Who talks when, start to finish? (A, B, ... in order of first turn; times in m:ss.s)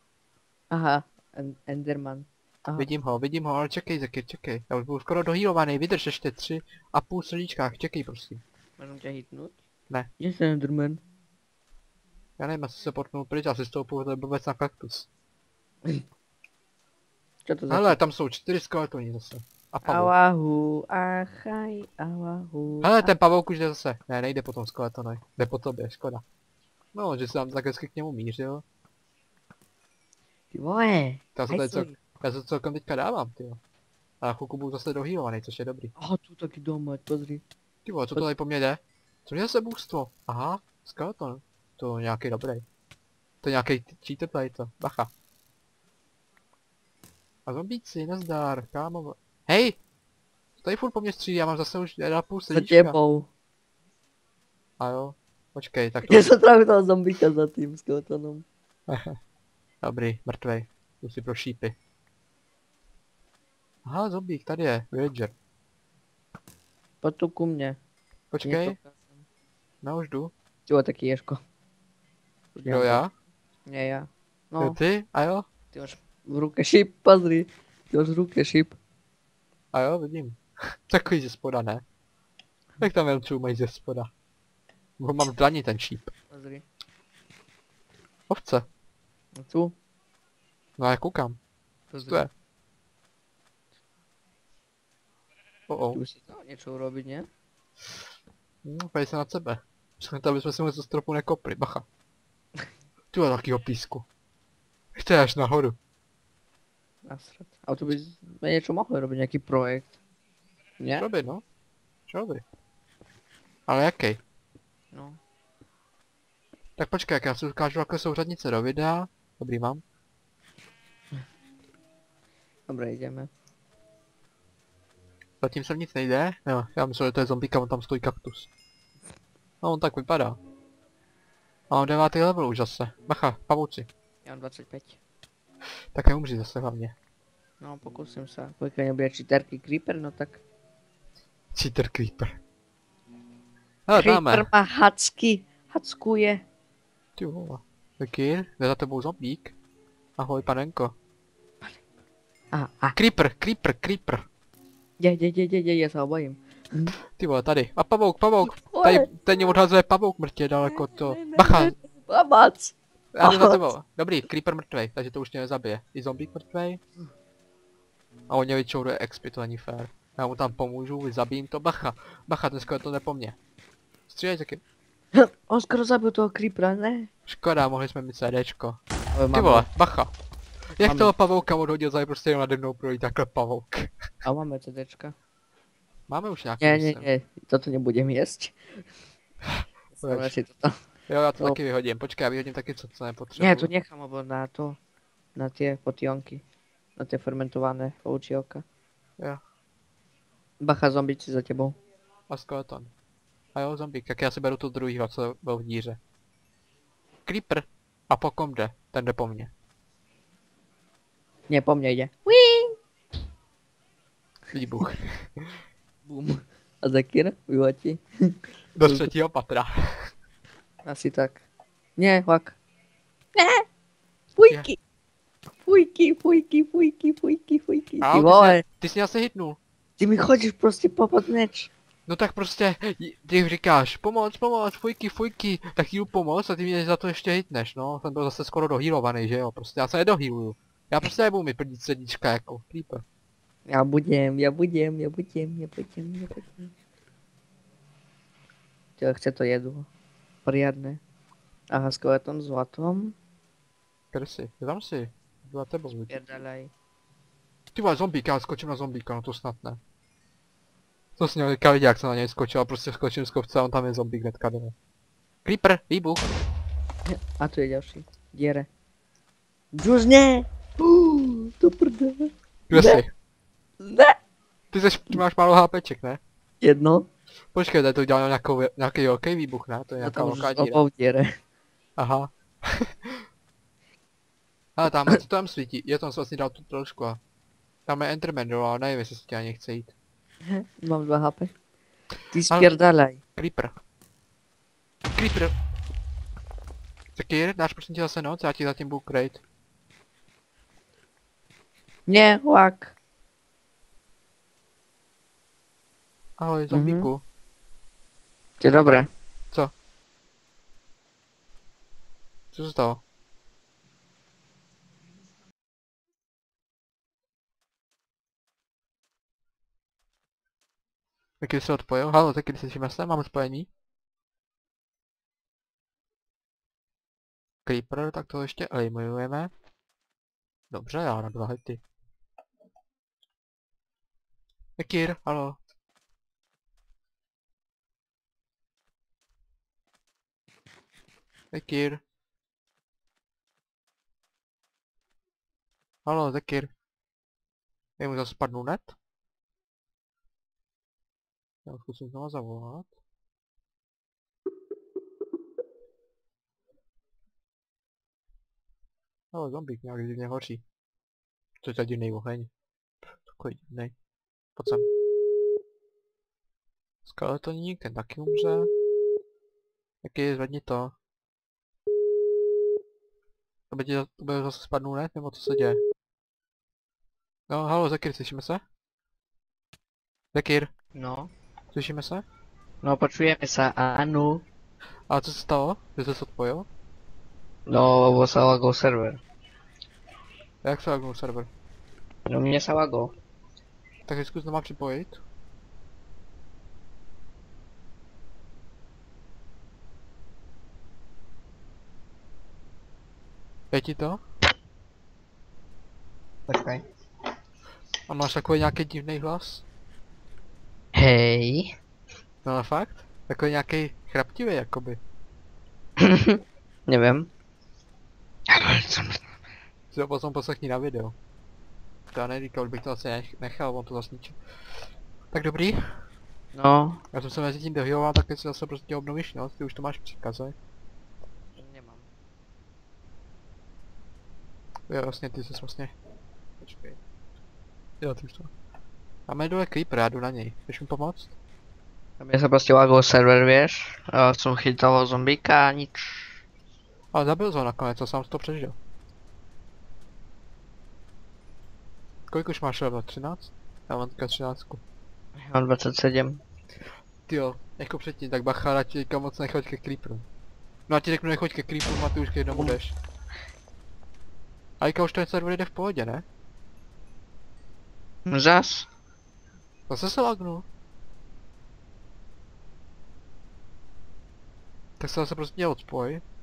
0:00.7-0:02.9 A
0:02.8-0:08.4 B
0:08.8-0:09.6 A
0:10.2-0:11.0 A
0:12.4-0:15.1 B
0:17.4-0:18.0 A
0:17.7-0:20.1 B
0:19.8-0:23.1 A
0:22.8-0:26.2 B
0:26.9-0:28.6 B
0:30.5-0:32.0 A
0:31.3-0:33.6 B
0:34.2-0:35.9 B
0:36.0-0:37.4 A
0:37.8-0:42.6 B
0:43.4-0:45.1 B
0:47.4-0:49.8 B
0:50.6-0:53.0 B
0:52.5-0:53.3 A
0:54.8-0:56.3 B
0:56.0-0:58.4 A
0:58.9-0:59.2 B
0:59.8-1:01.8 B
1:03.8-1:05.3 B
1:07.0-1:07.8 A
1:08.3-1:08.8 B
1:08.4-1:09.2 A
1:09.8-1:10.3 B
1:10.7-1:11.4 A
1:12.5-1:13.0 A
1:12.6-1:13.1 B
1:13.6-1:14.8 A
1:14.6-1:15.5 B
1:15.7-1:18.8 A
1:19.7-1:21.8 B
1:22.8-1:24.1 B
1:25.0-1:26.1 B
1:26.3-1:26.6 A
1:28.3-1:28.7 B
1:29.4-1:29.7 A
1:30.8-1:31.4 B
1:31.9-1:32.3 A
1:35.7-1:36.0 B
1:35.9-1:37.3 A
1:38.6-1:41.8 B
1:43.1-1:44.1 B
1:44.9-1:45.8 B
1:47.0-1:50.0 A
1:50.8-1:51.1 A
1:51.0-1:51.4 B
1:52.1-1:52.4 B
1:53.7-1:54.2 B
1:54.9-1:55.2 A
1:56.8-1:59.8 B
2:02.7-2:03.3 A
2:05.4-2:08.5 B
2:09.6-2:10.4 B
2:11.7-2:13.9 B
2:14.2-2:15.0 A
2:15.9-2:16.9 B
2:17.6-2:20.4 A
2:21.5-2:22.4 B
2:23.9-2:24.5 B
2:23.9-2:26.4 A
2:27.2-2:29.5 B
2:30.2-2:30.9 B
2:32.5-2:33.0 A
2:32.9-2:34.2 B
2:35.0-2:37.0 A
2:37.2-2:41.7 B
2:38.4-2:39.2 A
2:40.6-2:43.7 A
2:43.1-2:46.8 B
2:48.3-2:53.4 B
2:54.1-2:54.6 B
2:55.1-2:57.1 A
2:57.3-2:58.8 B
2:59.1-2:59.7 A
2:59.3-3:00.1 B
3:00.8-3:03.9 B
3:00.8-3:01.1 A
3:04.2-3:05.2 A
3:06.1-3:07.1 B
3:06.6-3:08.8 A
3:09.4-3:10.3 B
3:09.9-3:10.8 A
3:11.1-3:13.7 B
3:13.3-3:14.8 A
3:15.3-3:16.4 A
3:17.0-3:18.6 A
3:20.6-3:21.8 A
3:22.3-3:22.9 B
3:23.5-3:26.0 B
3:27.2-3:29.5 B
3:31.5-3:32.8 A
3:34.5-3:35.6 B
3:36.0-3:39.1 A
3:38.8-3:39.8 B
3:40.8-3:41.4 A
3:42.0-3:42.6 A
3:43.3-3:43.6 A
3:44.4-3:44.8 A
3:44.4-3:44.7 B
3:45.6-3:48.6 A
3:48.0-3:49.6 B
3:50.0-3:51.7 A
3:52.1-4:03.0 B
4:03.7-4:06.7 A
4:09.0-4:09.9 A
4:10.4-4:11.0 A
4:11.7-4:13.2 A
4:14.1-4:16.2 B
4:16.0-4:16.7 A
4:17.7-4:19.8 B
4:21.2-4:24.7 B
4:25.4-4:26.3 B
4:27.0-4:28.7 A
4:29.7-4:33.0 A
4:32.7-4:33.1 B
4:33.8-4:34.2 A
4:34.7-4:36.2 B
4:36.6-4:37.1 A
4:37.5-4:40.8 B
4:40.0-4:41.4 A
4:42.0-4:43.2 B
4:44.8-4:47.2 B
4:47.9-4:49.9 B
4:50.4-4:51.5 A
4:52.3-4:53.2 A
4:53.4-4:53.7 B
4:55.1-4:55.5 B
4:57.1-4:59.4 B
5:02.1-5:02.9 A
5:06.4-5:07.2 B
5:06.7-5:07.1 A
5:08.6-5:09.1 A
5:12.5-5:13.0 B
5:21.4-5:23.7 B
5:27.6-5:29.5 B
5:30.7-5:31.8 B
5:34.8-5:35.6 B
5:41.5-5:42.0 B
5:46.0-5:46.7 B
5:48.0-5:49.0 B
5:51.6-5:52.9 B
5:59.3-6:00.6 B
6:01.6-6:02.5 B
6:03.1-6:03.9 B
6:04.6-6:04.9 B
6:07.0-6:08.7 B
6:10.0-6:10.9 B
6:13.7-6:15.8 B
6:17.5-6:18.6 B
6:20.3-6:20.7 B
6:20.9-6:21.3 A
6:21.7-6:22.2 B
6:22.8-6:24.4 A
6:25.1-6:26.7 B
6:27.7-6:29.2 A
6:30.6-6:31.5 B
6:32.3-6:33.1 A
6:34.0-6:35.2 B
6:43.7-6:44.2 B
6:46.5-6:46.8 B
6:48.1-6:49.6 B
6:50.9-6:51.7 A
6:52.4-6:55.0 B
6:56.0-6:57.3 A
6:58.5-6:59.2 A
6:59.9-7:01.2 B
7:02.1-7:04.4 B
7:05.3-7:05.8 B
7:06.5-7:07.0 A
7:07.1-7:10.5 B
7:11.5-7:12.1 A
7:14.9-7:15.9 B
7:16.6-7:17.0 B
7:18.0-7:18.5 B
7:19.3-7:21.3 B
7:22.2-7:26.4 A
7:27.1-7:28.8 B
7:32.3-7:34.8 B
7:35.4-7:36.4 A
7:37.3-7:40.2 B
7:40.9-7:42.9 B
7:42.5-7:42.8 A
7:44.8-7:46.2 B
7:48.3-7:48.9 A
7:49.9-7:50.6 B
7:55.0-7:56.2 B